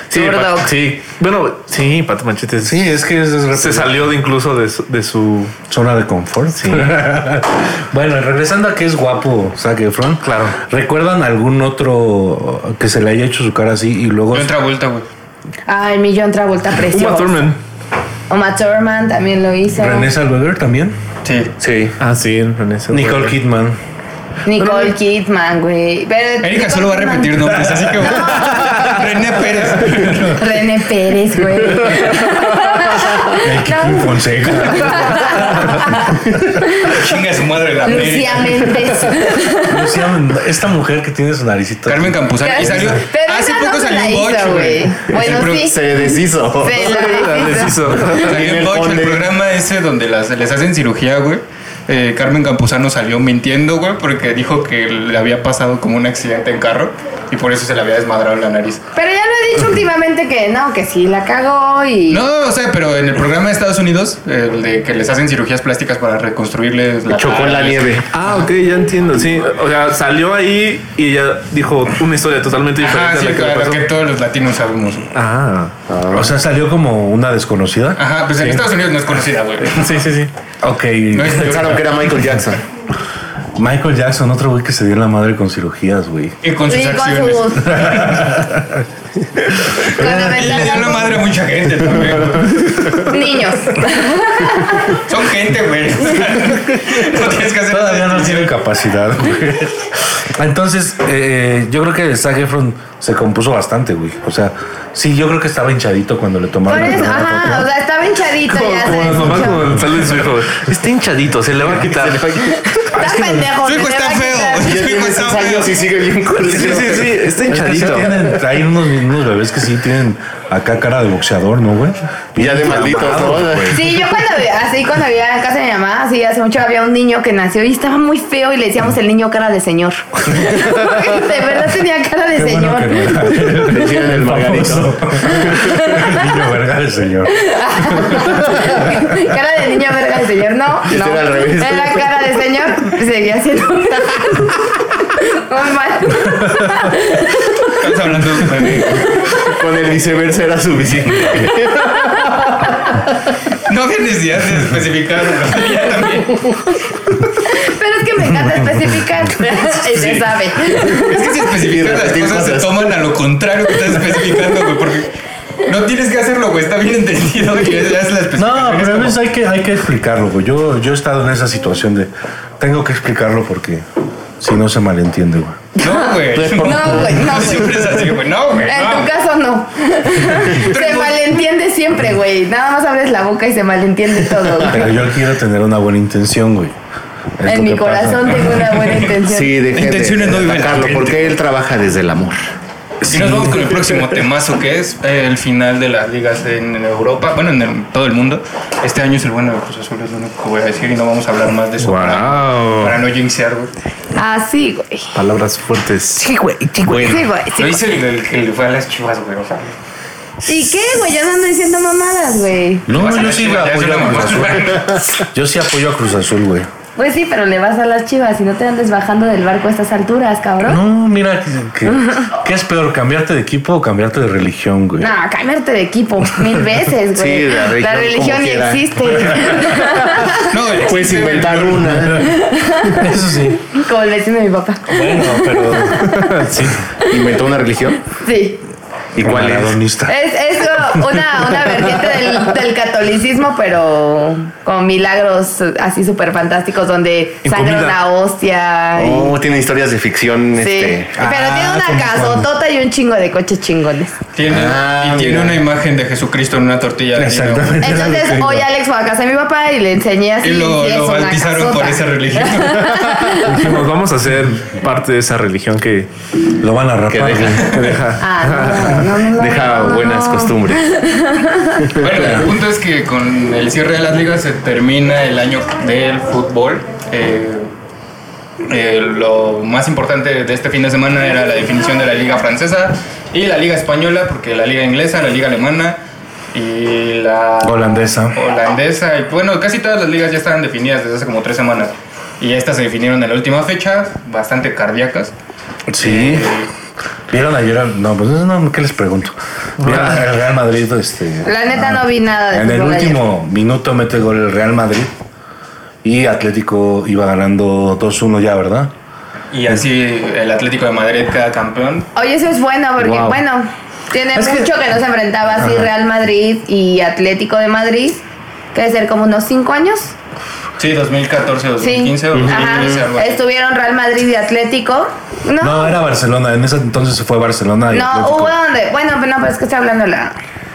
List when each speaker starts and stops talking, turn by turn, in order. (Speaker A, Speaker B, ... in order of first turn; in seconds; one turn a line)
Speaker A: 0.1-0.7
Speaker B: 0.1-2.9
Speaker C: 2.6-4.1
Speaker B: 3.5-5.6
Speaker C: 5.7-14.6
Speaker B: 6.6-7.0
Speaker B: 10.2-10.6
Speaker D: 14.3-15.1
Speaker A: 15.7-17.5
Speaker B: 16.8-17.6
Speaker A: 18.3-20.1
Speaker C: 19.8-21.0
Speaker D: 21.2-21.5
Speaker E: 21.6-22.0
Speaker B: 22.0-23.4
Speaker C: 22.9-23.8
Speaker A: 24.4-28.8
Speaker B: 24.6-24.9
Speaker D: 26.4-30.6
Speaker A: 30.4-37.0
Speaker C: 33.3-35.7
Speaker D: 36.8-38.8
Speaker A: 37.9-39.9
Speaker C: 39.6-43.0
Speaker D: 41.9-45.8
Speaker A: 42.4-45.8
Speaker E: 45.2-46.9
Speaker A: 46.6-47.8
Speaker B: 46.8-48.4
Speaker D: 48.1-58.8
Speaker E: 48.2-49.2
Speaker A: 59.0-62.2
Speaker D: 62.1-67.9
Speaker E: 67.1-68.1
Speaker B: 68.1-73.9
Speaker D: 72.8-75.1
Speaker B: 75.1-75.7
Speaker E: 75.9-76.3
Speaker C: 76.1-78.0
Speaker D: 78.0-80.0
Speaker B: 78.4-78.7
Speaker B: 79.7-80.3
Speaker C: 80.6-81.6
Speaker D: 81.1-81.8
Speaker E: 81.3-82.6
Speaker C: 83.6-86.4
Speaker D: 86.4-88.2
Speaker A: 86.7-87.8
Speaker C: 87.6-88.9
Speaker C: 89.7-91.0
Speaker A: 89.9-91.0
Speaker D: 90.2-93.0
Speaker A: 93.0-95.0
Speaker D: 94.9-98.5
Speaker C: 97.7-107.7
Speaker A: 106.7-109.8
Speaker B: 108.5-112.3
Speaker E: 111.6-112.6
Speaker A: 112.8-114.8
Speaker C: 113.0-113.5
Speaker D: 113.6-115.8
Speaker E: 114.6-117.3
Speaker B: 116.4-118.3
Speaker C: 116.5-124.0
Speaker E: 122.4-123.9
Speaker A: 123.7-133.3
Speaker C: 132.3-139.2
Speaker E: 133.5-135.8
Speaker A: 135.8-136.2
Speaker A: 137.3-147.8
Speaker E: 140.9-142.1
Speaker C: 146.4-146.8
Speaker D: 147.8-149.1
Speaker E: 148.5-152.6
Speaker D: 153.7-156.7
Speaker A: 157.4-161.2
Speaker D: 160.8-165.1
Speaker E: 161.5-162.9
Speaker D: 165.6-169.2
Speaker C: 168.4-173.9
Speaker C: 174.4-175.6
Speaker D: 175.8-179.1
Speaker A: 175.8-177.9
Speaker E: 176.3-177.3
Speaker A: 178.6-184.9
Speaker D: 180.3-181.3
Speaker C: 184.7-186.8
Speaker C: 187.4-188.8
Speaker A: 187.4-189.6
Speaker E: 189.2-192.5
Speaker D: 189.7-191.4
Speaker C: 193.0-193.7
Speaker D: 193.1-203.7
Speaker B: 201.8-203.0
Speaker A: 204.2-205.1
Speaker B: 205.1-206.3
Speaker A: 206.9-207.8
Speaker E: 206.9-207.2
Speaker D: 207.6-209.8
Speaker A: 210.4-212.9
Speaker C: 212.9-216.7
Speaker D: 212.9-215.0
Speaker A: 217.0-220.8
Speaker C: 220.6-225.1
Speaker A: 225.0-230.4
Speaker E: 227.1-229.8
Speaker D: 230.4-232.1
Speaker E: 230.7-232.3
Speaker C: 232.0-233.6
Speaker A: 232.3-233.1
Speaker A: 233.6-236.4
Speaker C: 234.9-236.2
Speaker B: 236.1-236.8
Speaker E: 237.1-238.0
Speaker A: 238.1-238.6
Speaker E: 239.2-239.8
Speaker C: 239.2-240.2
Speaker A: 240.1-249.4
Speaker B: 247.4-248.0
Speaker E: 249.0-251.1
Speaker A: 250.6-254.1
Speaker C: 251.1-252.5
Speaker D: 254.3-257.9
Speaker E: 254.5-255.6
Speaker C: 257.1-258.7
Speaker A: 257.8-263.7
Speaker D: 260.4-263.0
Speaker B: 263.4-266.1
Speaker C: 266.6-268.0
Speaker E: 267.1-267.8
Speaker B: 267.7-269.1
Speaker A: 268.2-272.0
Speaker E: 269.2-270.9
Speaker E: 272.0-272.4
Speaker D: 272.0-277.7
Speaker C: 272.2-272.5
Speaker D: 278.6-286.0
Speaker D: 286.5-295.3
Speaker C: 287.6-288.4
Speaker C: 295.9-296.5
Speaker D: 296.0-296.7
Speaker C: 297.3-305.1
Speaker B: 299.8-300.2
Speaker A: 301.4-303.3
Speaker C: 306.0-308.9
Speaker D: 309.5-312.1
Speaker A: 312.2-318.2
Speaker E: 313.0-313.4
Speaker C: 314.3-314.7
Speaker C: 315.6-315.9
Speaker A: 318.7-320.1
Speaker D: 320.8-323.4
Speaker A: 321.8-326.0
Speaker E: 322.3-323.0
Speaker C: 325.6-328.6
Speaker A: 327.9-330.4